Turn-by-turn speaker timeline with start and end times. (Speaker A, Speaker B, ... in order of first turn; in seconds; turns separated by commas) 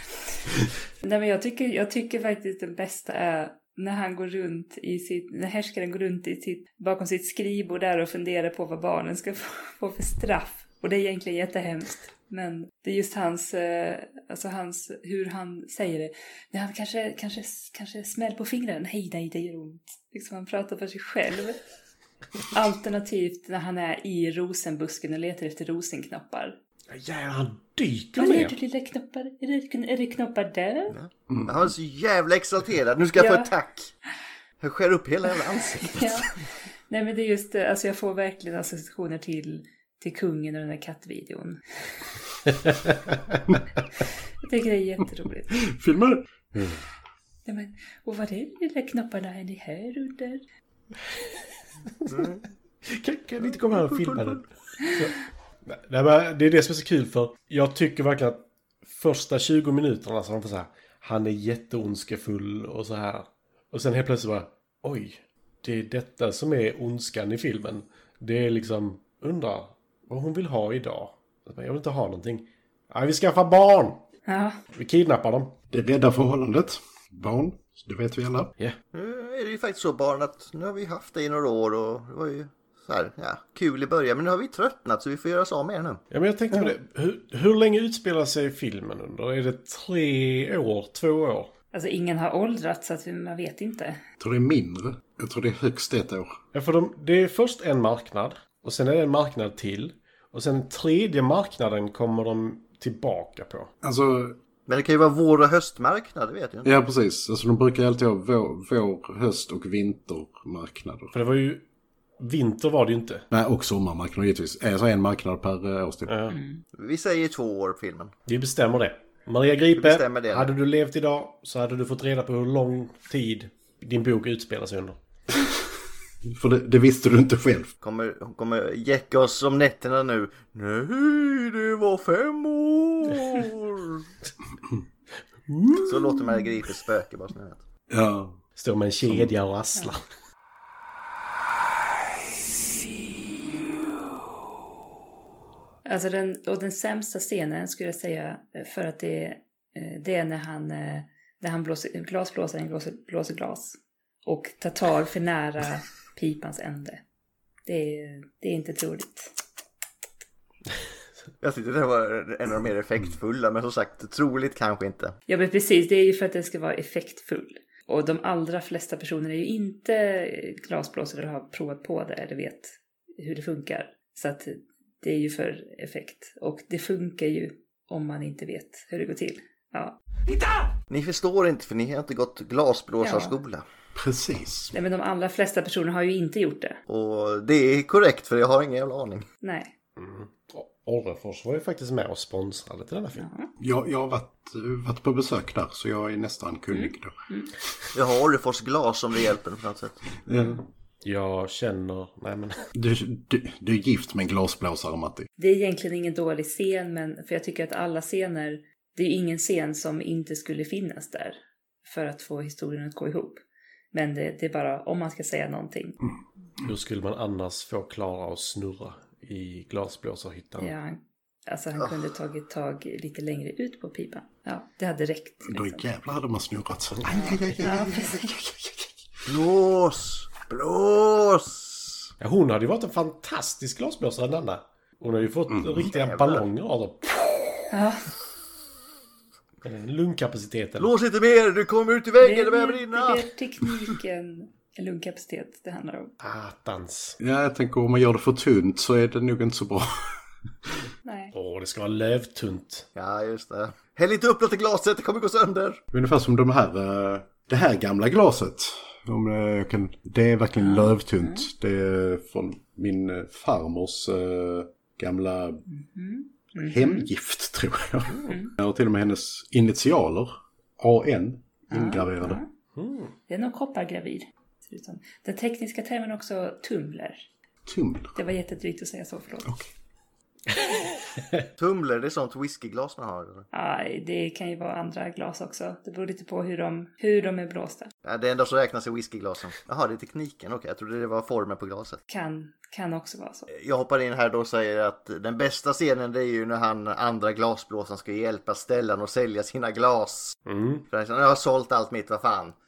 Speaker A: 1.0-21.6, Speaker A: 22.5-26.6, Speaker B: 26.9-28.5, Speaker A: 28.1-30.9, Speaker C: 30.9-33.9, Speaker D: 31.3-31.7, Speaker A: 33.1-33.5, Speaker C: 34.6-36.3, Speaker A: 35.8-36.3, Speaker A: 36.9-41.6, Speaker A: 44.4-45.5, Speaker D: 45.5-46.8, Speaker A: 47.5-50.4, Speaker C: 52.1-52.5, Speaker B: 52.9-55.1, Speaker C: 53.4-54.4, Speaker B: 55.6-74.0, Speaker A: 74.3-74.6, Speaker B: 74.7-75.5, Speaker D: 75.7-78.5, Speaker C: 78.9-86.0, Speaker B: 86.1-91.5, Speaker A: 91.7-94.0, Speaker D: 94.2-96.4, Speaker B: 96.5-103.7, Speaker D: 103.8-104.4, Speaker C: 104.7-106.7, Speaker D: 106.6-111.1, Speaker B: 111.1-111.6, Speaker B: 112.2-113.2, Speaker D: 113.3-116.1, Speaker B: 116.1-116.3, Speaker A: 116.3-116.6, Speaker C: 116.7-118.1, Speaker B: 118.3-125.0, Speaker C: 119.8-120.5, Speaker D: 126.2-127.7, Speaker C: 127.8-134.1, Speaker B: 135.5-135.9, Speaker C: 135.8-137.6, Speaker D: 137.9-138.4, Speaker B: 138.6-140.0, Speaker D: 139.0-139.3, Speaker A: 145.8-157.0, Speaker A: 157.7-159.3, Speaker C: 161.4-165.2, Speaker A: 165.3-180.0, Speaker C: 180.9-183.6, Speaker A: 183.0-183.3, Speaker D: 183.9-184.7, Speaker A: 184.7-186.8, Speaker C: 186.9-189.2, Speaker A: 189.4-189.7, Speaker B: 190.0-193.2, Speaker A: 193.2-193.5, Speaker D: 193.6-197.2, Speaker A: 196.7-197.5, Speaker C: 197.9-200.0, Speaker D: 200.2-200.6, Speaker B: 201.0-202.7, Speaker D: 202.7-205.3, Speaker A: 205.4-213.4, Speaker A: 213.9-216.0, Speaker B: 216.6-220.7, Speaker A: 220.6-225.8, Speaker D: 225.5-229.3, Speaker A: 227.1-228.2, Speaker C: 229.3-232.1, Speaker B: 232.2-237.3, Speaker D: 235.5-235.9, Speaker C: 235.9-236.4, Speaker A: 237.7-238.1, Speaker B: 239.6-240.9, Speaker C: 240.8-243.2, Speaker A: 242.2-246.1, Speaker B: 246.2-247.2, Speaker D: 247.2-250.2, Speaker A: 251.0-251.3, Speaker B: 251.3-252.9, Speaker C: 252.9-255.8, Speaker D: 255.9-265.6, Speaker A: 260.6-261.5, Speaker A: 265.7-267.1, Speaker D: 266.6-272.4, Speaker A: 271.7-272.5, Speaker B: 272.8-273.1, Speaker A: 273.3-277.3, Speaker D: 277.6-278.1, Speaker A: 278.1-279.6, Speaker C: 281.6-283.4, Speaker A: 283.5-287.9, Speaker C: 288.0-292.0, Speaker A: 292.1-293.5, Speaker C: 293.5-300.4, Speaker B: 300.5-300.8, Speaker C: 300.9-302.5